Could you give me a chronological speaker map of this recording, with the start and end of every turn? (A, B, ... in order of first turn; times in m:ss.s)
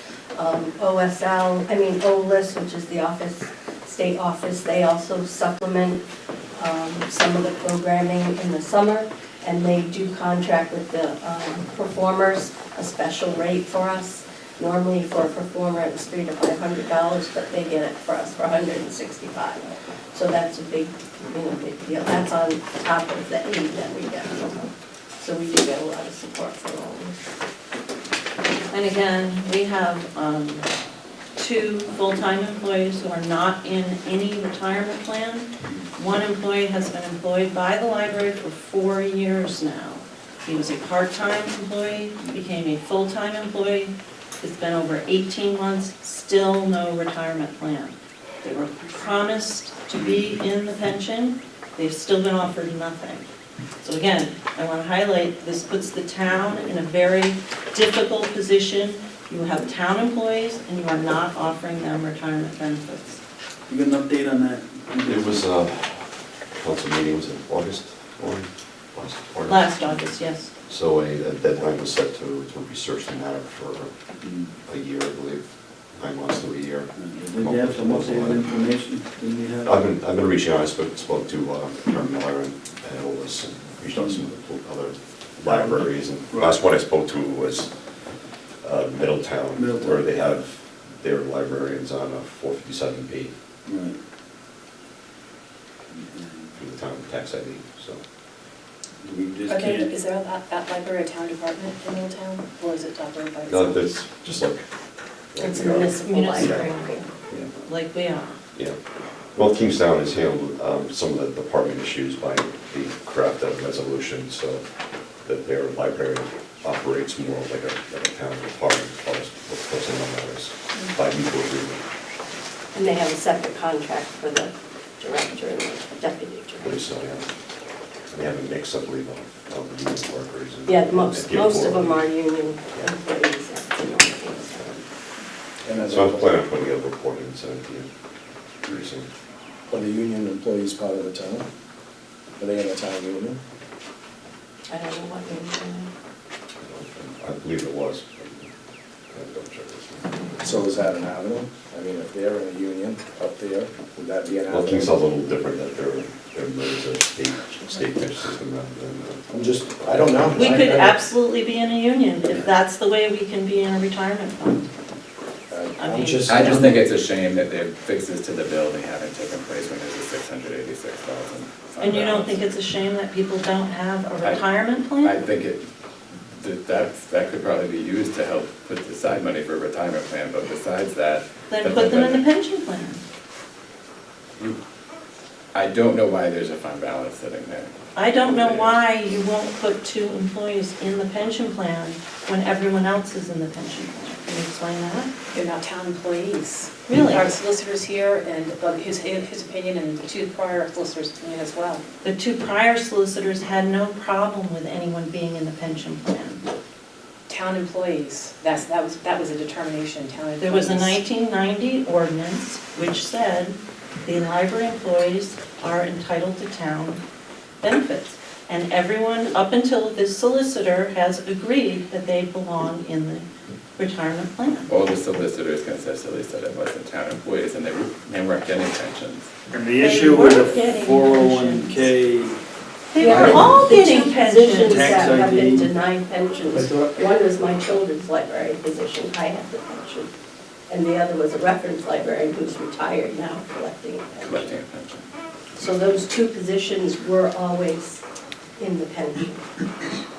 0:00.3-0:06.0 A
0:06.6-0:19.6 A
0:20.1-0:27.1 A
0:28.7-0:30.7 B
0:31.4-0:53.3 B
0:53.8-1:03.2 B
1:03.7-1:05.4 C
1:05.0-1:09.8 D
1:09.5-1:10.5 B
1:10.6-1:14.1 D
1:14.2-1:14.6 C
1:14.6-1:18.4 D
1:16.9-1:19.9 C
1:19.6-1:33.3 D
1:23.9-1:24.3 C
1:25.4-1:26.6 C
1:29.5-1:30.1 C
1:33.6-1:34.0 C
1:35.9-1:36.5 C
1:36.5-1:38.0 D
1:39.0-1:39.9 C
1:39.5-1:43.9 E
1:43.5-1:44.7 D
1:45.3-1:46.7 D
1:45.4-1:47.1 A
1:46.0-1:47.0 B
1:47.6-1:48.4 B
1:49.3-1:54.6 D
1:55.2-2:01.8 D
2:02.7-2:06.8 A
2:06.6-2:07.3 D
2:08.1-2:12.0 D
2:10.6-2:14.8 A
2:15.6-2:16.4 F
2:15.9-2:17.9 D
2:18.6-2:19.1 D
2:19.7-2:21.5 F
2:22.4-2:23.4 F
2:24.7-2:25.9 A
2:26.6-2:28.5 D
2:29.1-2:30.1 D
2:30.4-2:35.0 F
2:34.5-2:39.3 D
2:39.3-2:41.0 F
2:39.8-2:40.5 D
2:40.3-2:44.7 B
2:45.5-2:46.9 F
2:45.8-2:46.8 B
2:46.3-2:52.4 G
2:51.8-2:55.2 B
2:55.0-2:55.6 G
2:56.4-3:02.2 G
3:01.5-3:03.0 B
3:05.5-3:07.7 G
3:08.0-3:15.1 B
3:08.2-3:08.8 G
3:15.3-3:21.8 E
3:16.9-3:17.3 B
3:22.0-3:26.4 B
3:27.3-3:31.0 E
3:30.4-3:37.0 B
3:37.6-3:43.2 B
3:43.8-3:44.7 B
3:44.7-3:49.3 G
3:49.5-3:52.4 C
3:49.8-3:51.9 B
3:52.9-3:55.0 B
3:53.0-4:00.1 A
3:53.0-3:53.7 G
3:54.7-3:55.7 C
4:00.7-4:04.6 A
4:04.2-4:05.0 G
4:05.6-4:08.0 A
4:08.6-4:09.4 A